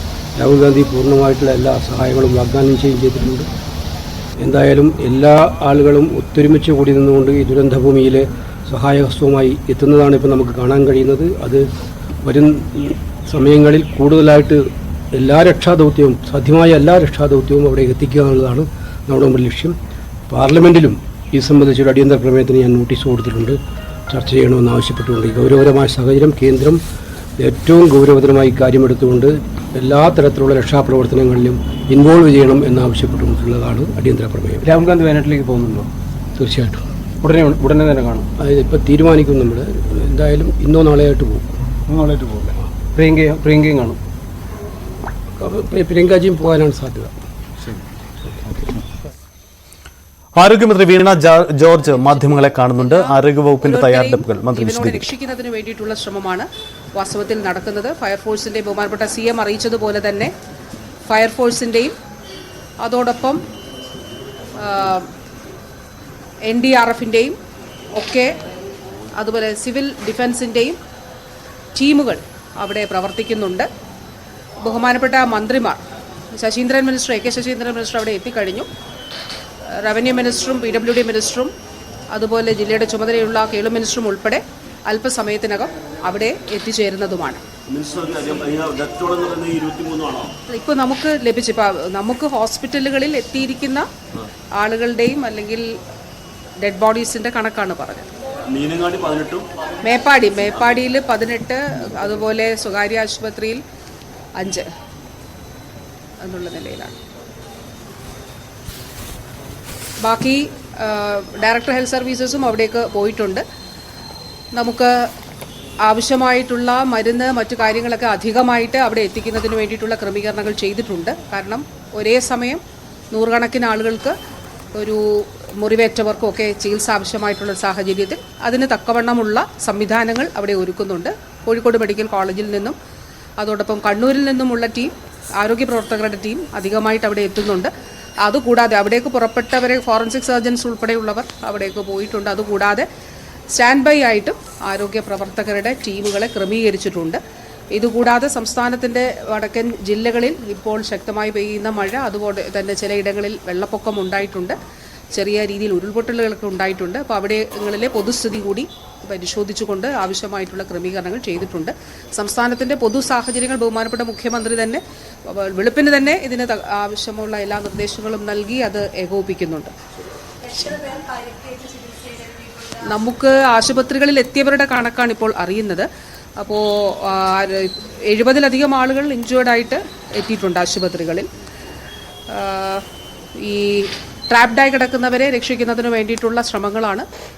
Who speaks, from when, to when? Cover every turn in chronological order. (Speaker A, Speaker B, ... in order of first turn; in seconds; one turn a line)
Speaker A: 0.4-3.5
Speaker A: 4.4-11.7
Speaker A: 12.2-19.8
Speaker A: 20.3-23.6
Speaker A: 24.1-26.8
Speaker A: 27.4-34.7
Speaker B: 34.6-35.9
Speaker A: 36.4-36.8
Speaker B: 37.2-38.3
Speaker A: 38.4-41.5
Speaker B: 41.9-44.0
Speaker A: 45.4-47.1
Speaker C: 50.4-55.1
Speaker D: 52.8-60.3
Speaker D: 61.1-62.0
Speaker D: 62.8-63.4
Speaker D: 64.6-65.1
Speaker D: 66.5-67.4
Speaker D: 68.0-68.3
Speaker D: 69.1-70.8
Speaker D: 71.8-73.7
Speaker D: 74.6-75.8
Speaker D: 76.3-78.7
Speaker D: 79.8-81.5
Speaker D: 82.1-87.4
Speaker E: 87.7-90.4
Speaker D: 90.5-93.9
Speaker D: 94.6-95.8
Speaker D: 96.6-98.1
Speaker E: 98.5-99.5
Speaker D: 99.8-103.6
Speaker D: 104.4-104.7
Speaker D: 106.2-106.9
Speaker D: 110.0-113.4
Speaker D: 114.5-115.1
Speaker D: 115.8-124.2
Speaker D: 124.8-132.8
Speaker D: 133.4-137.7
Speaker D: 138.2-142.9
Speaker D: 143.5-147.2
Speaker D: 147.7-154.6
Speaker D: 155.1-169.7
Speaker D: 170.5-170.9
Speaker D: 172.8-175.9
Speaker D: 176.4-181.3
Speaker D: 182.3-182.8
Speaker D: 183.4-187.1